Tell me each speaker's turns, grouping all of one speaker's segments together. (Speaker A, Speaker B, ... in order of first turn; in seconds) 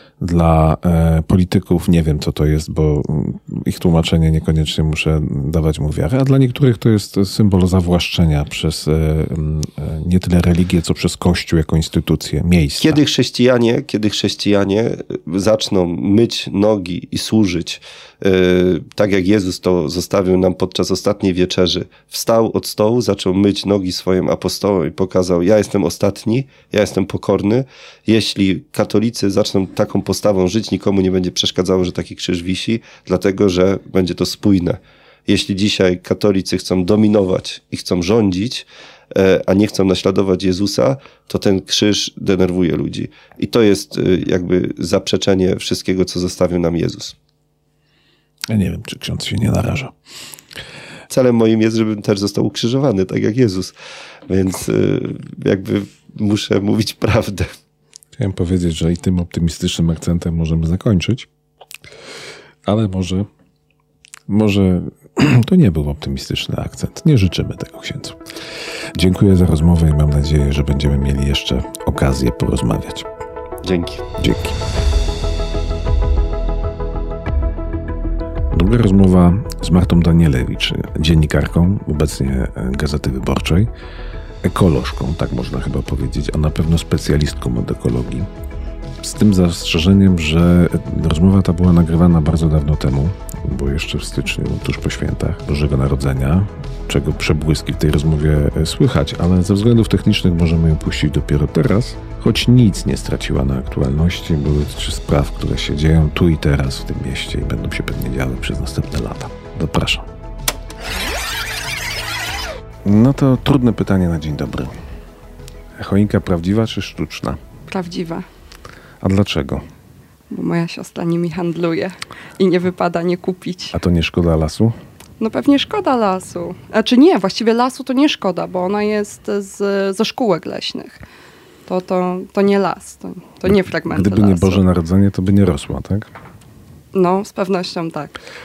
Speaker A: 0.2-13.0, 48.5-49.9, 58.2-61.2, 62.6-63.3, 64.3-68.2, 68.9-73.0, 74.2-74.5, 78.5-83.7, 84.4-88.3, 89.0-110.0, 112.8-114.8, 115.8-117.4, 119.0-119.6, 123.7-124.7, 133.9-136.1
Speaker B: 12.8-47.1, 51.1-53.7, 54.3-57.5, 73.6-74.0
Speaker C: 117.7-118.2, 120.3-123.7, 125.2-131.0, 131.7-134.6, 136.9-138.1